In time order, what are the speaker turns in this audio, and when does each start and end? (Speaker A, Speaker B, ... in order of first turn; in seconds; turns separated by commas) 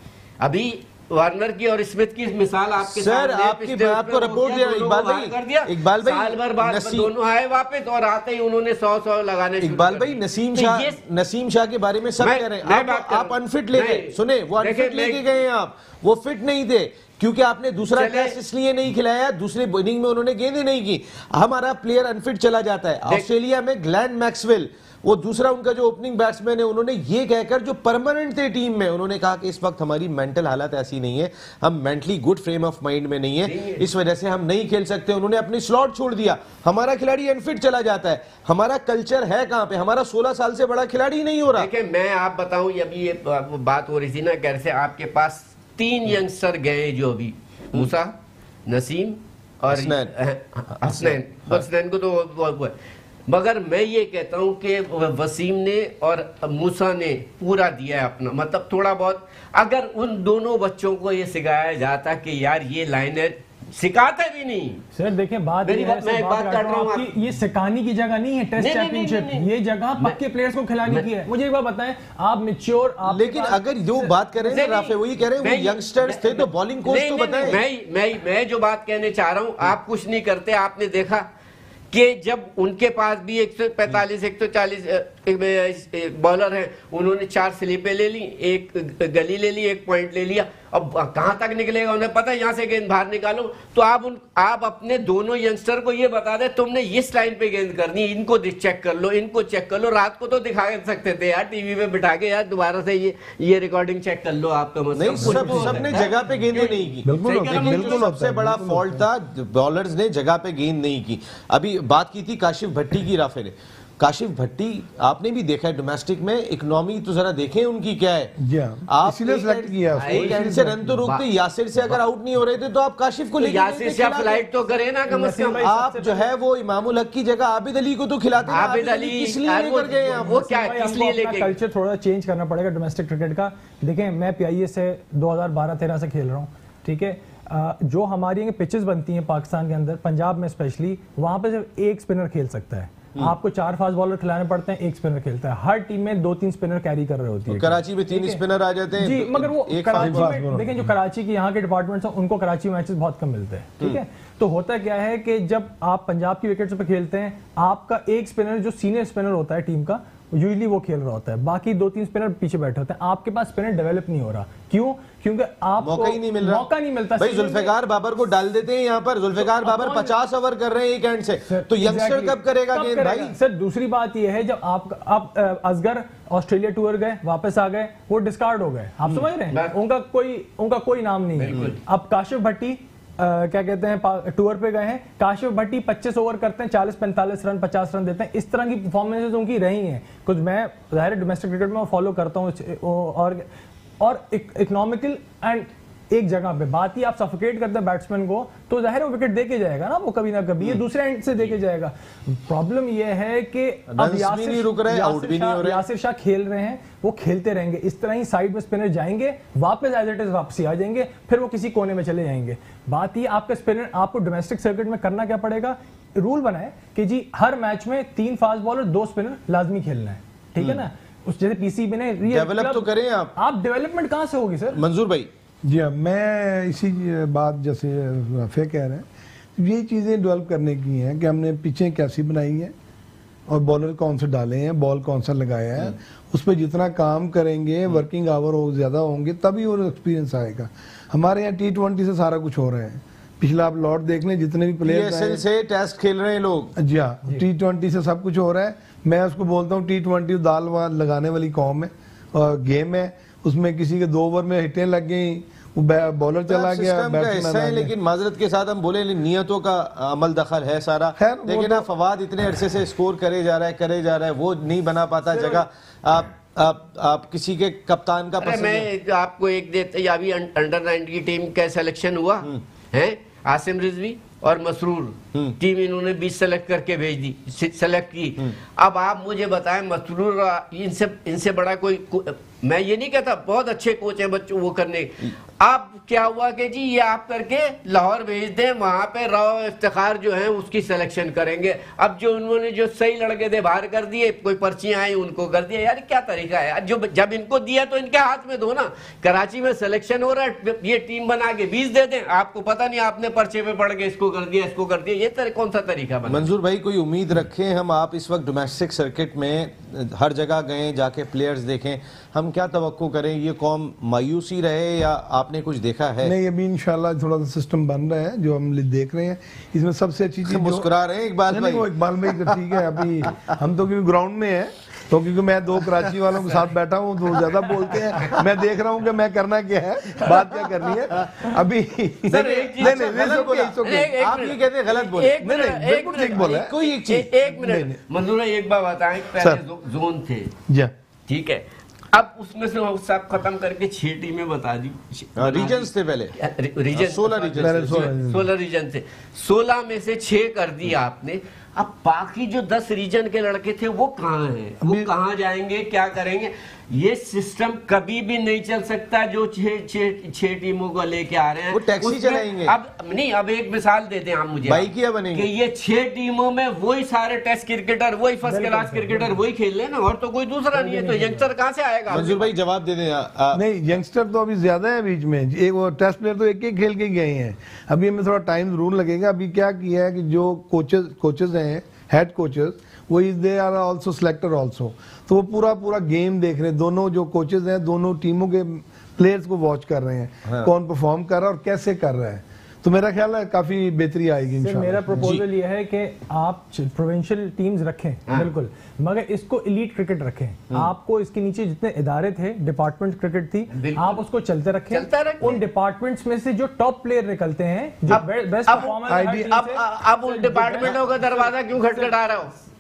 Speaker A: 0.4-11.0, Speaker B: 2.9-7.1, Speaker B: 9.6-41.7, Speaker A: 12.2-15.2, Speaker A: 17.9-18.4, Speaker A: 33.5-33.9, Speaker A: 41.5-48.1, Speaker A: 48.7-52.8, Speaker B: 49.7-50.1, Speaker B: 50.8-51.6, Speaker A: 53.3-64.9, Speaker C: 64.9-74.1, Speaker A: 65.7-67.1, Speaker A: 68.6-70.2, Speaker B: 73.0-77.6, Speaker A: 74.4-81.3, Speaker A: 81.9-108.1, Speaker B: 105.0-118.3, Speaker D: 105.2-106.1, Speaker D: 107.0-109.1, Speaker D: 118.4-121.0, Speaker B: 118.9-124.4, Speaker A: 119.9-121.2, Speaker A: 123.4-125.7, Speaker C: 125.1-126.3, Speaker B: 125.5-130.4, Speaker A: 128.5-131.5, Speaker C: 130.2-148.4, Speaker B: 147.5-150.3, Speaker C: 149.0-167.7, Speaker D: 150.0-150.9, Speaker B: 165.8-166.7, Speaker B: 167.2-173.3, Speaker C: 169.4-170.2, Speaker C: 171.5-193.5, Speaker A: 181.4-181.8, Speaker C: 194.0-224.8, Speaker B: 203.9-205.8, Speaker B: 220.6-220.8, Speaker B: 222.3-223.3, Speaker B: 224.7-225.3, Speaker D: 225.6-232.7, Speaker D: 233.5-245.4, Speaker B: 244.8-246.8, Speaker D: 246.8-257.9, Speaker B: 256.5-268.9, Speaker D: 261.2-261.9, Speaker A: 265.3-265.6, Speaker A: 268.4-306.5, Speaker B: 306.3-316.3, Speaker D: 316.2-320.9, Speaker B: 320.5-323.4, Speaker D: 321.5-334.1, Speaker B: 332.3-337.4, Speaker A: 332.3-340.6, Speaker D: 335.4-336.7, Speaker D: 337.6-338.0, Speaker A: 341.3-372.5, Speaker B: 345.4-346.4, Speaker B: 346.9-348.1, Speaker D: 347.6-348.5, Speaker B: 361.7-362.7, Speaker B: 364.7-365.5, Speaker C: 368.5-369.4, Speaker C: 370.7-371.5, Speaker B: 372.1-373.6, Speaker D: 373.5-395.4, Speaker C: 394.6-412.1, Speaker B: 395.2-395.4, Speaker A: 403.7-404.2, Speaker A: 404.9-405.6, Speaker A: 408.1-412.5, Speaker D: 409.1-409.7